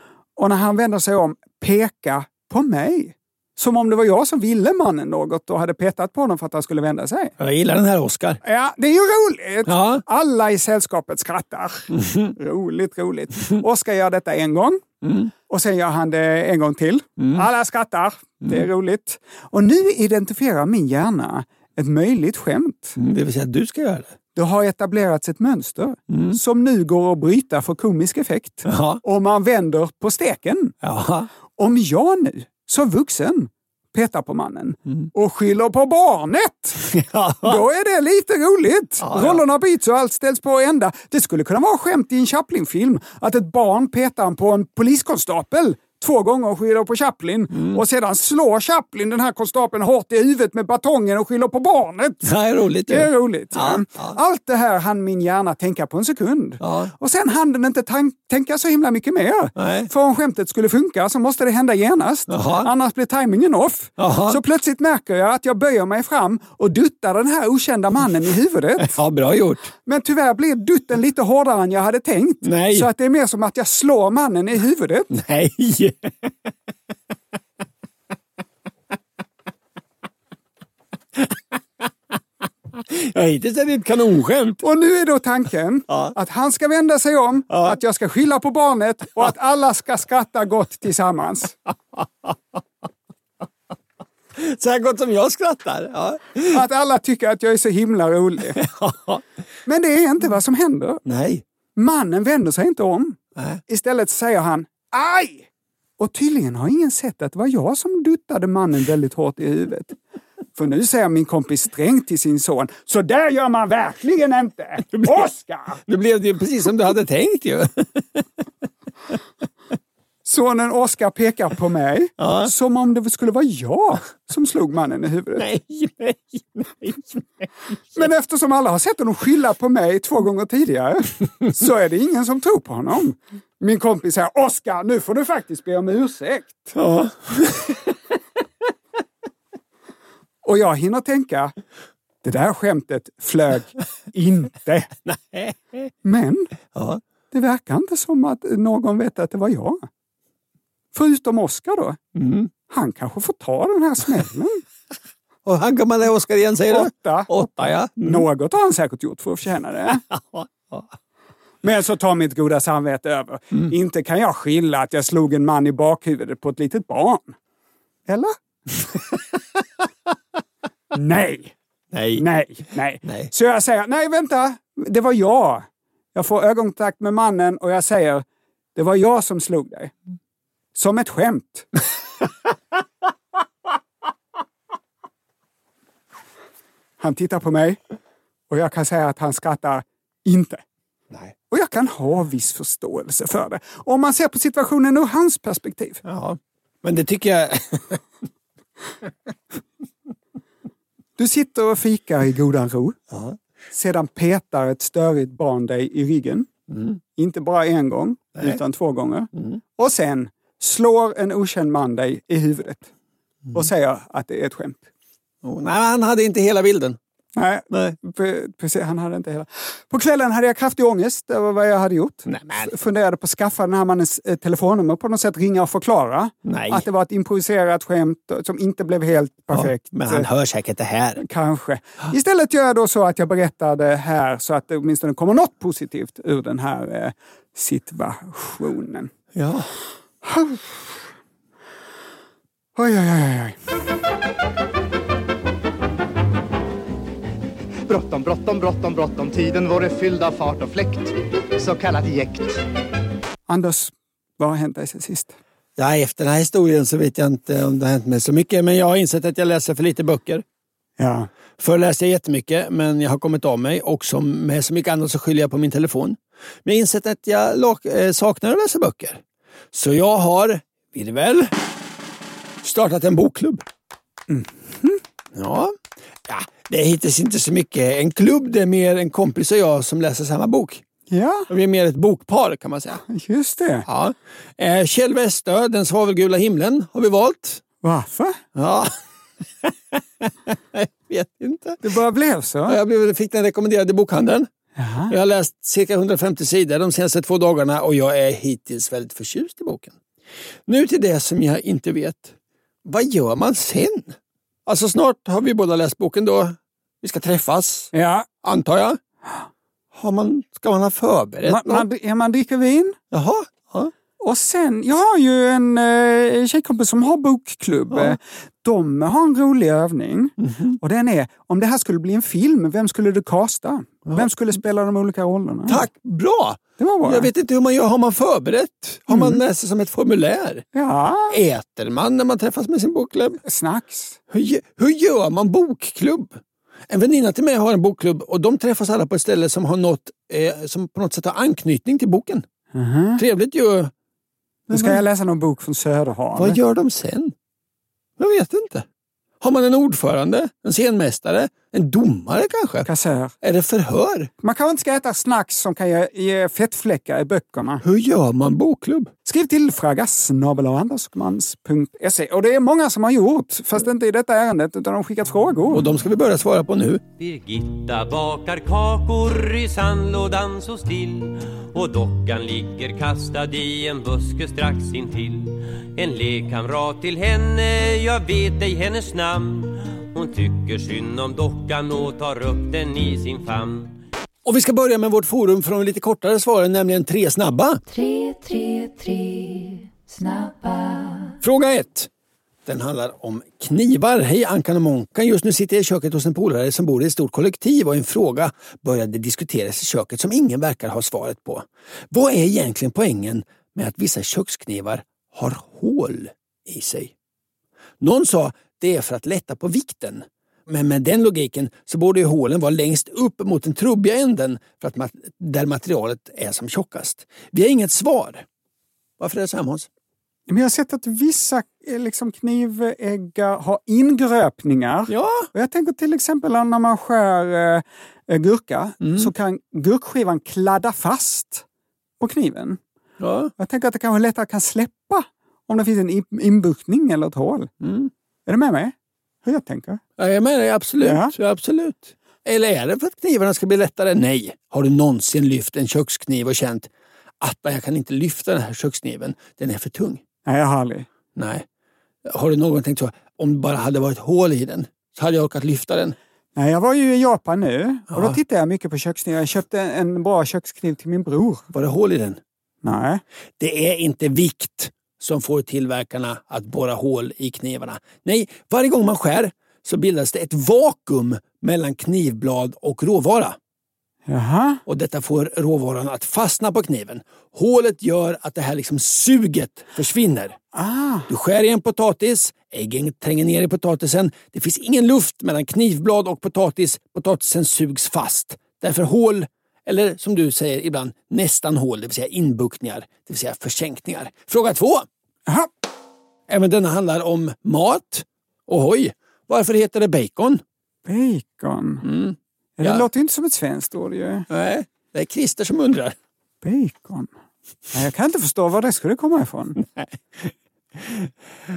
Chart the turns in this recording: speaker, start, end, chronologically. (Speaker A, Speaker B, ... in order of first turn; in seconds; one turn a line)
Speaker A: 0.4-7.3
Speaker B: 7.4-8.4
Speaker A: 8.4-14.8
Speaker B: 9.7-10.0
Speaker B: 11.9-12.3
Speaker B: 15.0-15.3
Speaker A: 15.5-23.0
Speaker B: 17.2-17.4
Speaker B: 23.0-24.1
Speaker A: 24.3-30.7
Speaker B: 26.1-26.4
Speaker B: 28.6-29.0
Speaker B: 30.8-31.3
Speaker A: 31.6-36.8
Speaker B: 36.9-37.6
Speaker A: 37.4-52.3
Speaker B: 39.0-39.4
Speaker B: 47.5-47.8
Speaker B: 52.2-54.2
Speaker A: 52.9-68.9
Speaker B: 56.6-56.9
Speaker B: 59.6-59.9
Speaker B: 62.3-62.7
Speaker B: 64.0-64.4
Speaker B: 68.8-69.7
Speaker A: 69.8-75.1
Speaker B: 72.4-72.9
Speaker B: 75.1-76.3
Speaker B: 82.7-84.6
Speaker A: 84.6-91.5
Speaker B: 85.9-86.1
Speaker B: 87.5-87.8
Speaker B: 92.0-92.3
Speaker B: 94.3-96.6
Speaker A: 96.5-98.6
Speaker B: 98.5-99.2
Speaker A: 99.7-101.0
Speaker B: 101.0-101.4
Speaker A: 101.8-105.5
Speaker A: 106.0-110.0
Speaker A: 110.5-115.8
Speaker B: 114.9-115.3
Speaker B: 115.8-118.2
Speaker A: 120.2-125.4
Speaker B: 122.2-122.5
Speaker B: 125.3-128.1
Speaker A: 128.0-136.7
Speaker B: 136.7-137.9
Speaker A: 140.4-141.5
Speaker A: 142.2-144.9
Speaker B: 145.0-145.9
Speaker A: 146.0-146.5
Speaker B: 146.7-147.0
Speaker A: 147.3-149.8
Speaker A: 150.9-152.0
Speaker B: 152.1-152.5
Speaker A: 152.7-154.6
Speaker B: 155.4-158.2
Speaker A: 156.7-160.0
Speaker B: 160.1-160.8
Speaker A: 161.6-167.3
Speaker A: 168.1-168.3
Speaker A: 170.9-171.5
Speaker B: 171.9-172.2
Speaker A: 172.1-179.9
Speaker B: 173.0-173.3
Speaker A: 180.7-181.7
Speaker A: 187.0-187.8
Speaker A: 188.5-190.6
Speaker A: 191.5-196.0
Speaker B: 196.0-198.0
Speaker A: 201.2-203.0
Speaker B: 203.1-203.3
Speaker A: 203.7-206.5
Speaker B: 206.7-207.0
Speaker A: 207.2-212.9
Speaker A: 213.5-214.8
Speaker B: 215.4-217.0
Speaker A: 217.3-230.2
Speaker B: 217.7-218.0
Speaker B: 222.2-222.7
Speaker B: 226.4-226.9
Speaker B: 229.5-231.2
Speaker A: 231.2-239.1
Speaker B: 239.3-239.7
Speaker A: 240.2-240.9
Speaker A: 242.8-243.6
Speaker C: 247.9-252.6
Speaker A: 253.5-255.3
Speaker B: 255.8-260.4
Speaker A: 261.0-261.3
Speaker B: 261.6-271.5
Speaker B: 272.6-273.6
Speaker A: 274.3-275.0
Speaker B: 275.3-275.7
Speaker B: 276.2-280.8
Speaker A: 281.1-281.5
Speaker B: 281.5-283.0
Speaker A: 283.1-283.9
Speaker B: 283.9-287.6
Speaker A: 287.8-288.4
Speaker B: 288.5-288.9
Speaker B: 289.6-291.9
Speaker A: 291.8-292.8
Speaker B: 292.7-294.5
Speaker A: 294.8-295.1
Speaker B: 295.1-300.0
Speaker B: 300.7-307.9
Speaker A: 307.9-308.2
Speaker B: 308.4-309.0
Speaker B: 309.9-311.9
Speaker A: 311.4-313.0
Speaker B: 313.1-313.9
Speaker A: 314.2-325.8
Speaker B: 317.9-318.2
Speaker B: 320.4-320.8
Speaker B: 325.7-330.6
Speaker A: 326.8-327.3
Speaker A: 329.1-329.4
Speaker A: 330.7-331.4
Speaker B: 331.3-333.4
Speaker A: 333.4-334.2
Speaker B: 334.3-342.4
Speaker A: 342.7-343.2
Speaker B: 343.2-343.9
Speaker B: 344.7-345.0
Speaker A: 344.7-346.6
Speaker B: 346.3-347.3
Speaker B: 348.2-348.9
Speaker B: 349.4-352.9
Speaker A: 352.8-353.3
Speaker B: 353.4-354.3
Speaker A: 354.4-357.8
Speaker B: 357.8-359.1
Speaker A: 359.2-365.8
Speaker B: 365.7-367.0
Speaker D: 367.2-384.0
Speaker B: 384.4-387.8
Speaker B: 391.4-392.1
Speaker B: 392.6-407.1
Speaker B: 408.0-418.4
Speaker B: 419.2-419.9
Speaker A: 420.5-431.6
Speaker B: 425.1-425.5
Speaker B: 429.0-429.3
Speaker A: 432.2-432.8
Speaker B: 433.2-433.5
Speaker A: 433.6-437.7
Speaker B: 437.8-438.1
Speaker A: 438.5-440.0
Speaker B: 440.2-450.2
Speaker A: 441.0-441.3
Speaker A: 450.4-451.1
Speaker B: 451.4-451.6
Speaker B: 452.2-456.1
Speaker A: 456.6-461.7
Speaker B: 458.1-458.4
Speaker B: 461.7-462.4
Speaker A: 462.8-463.2
Speaker B: 463.6-473.6
Speaker A: 474.3-474.8
Speaker B: 474.9-480.6
Speaker A: 480.7-481.3
Speaker B: 481.3-495.1
Speaker B: 496.5-500.6
Speaker A: 501.1-502.1
Speaker B: 502.0-503.1
Speaker A: 502.8-504.5
Speaker B: 504.5-506.1
Speaker A: 506.6-507.3
Speaker A: 507.9-509.8
Speaker B: 509.8-511.3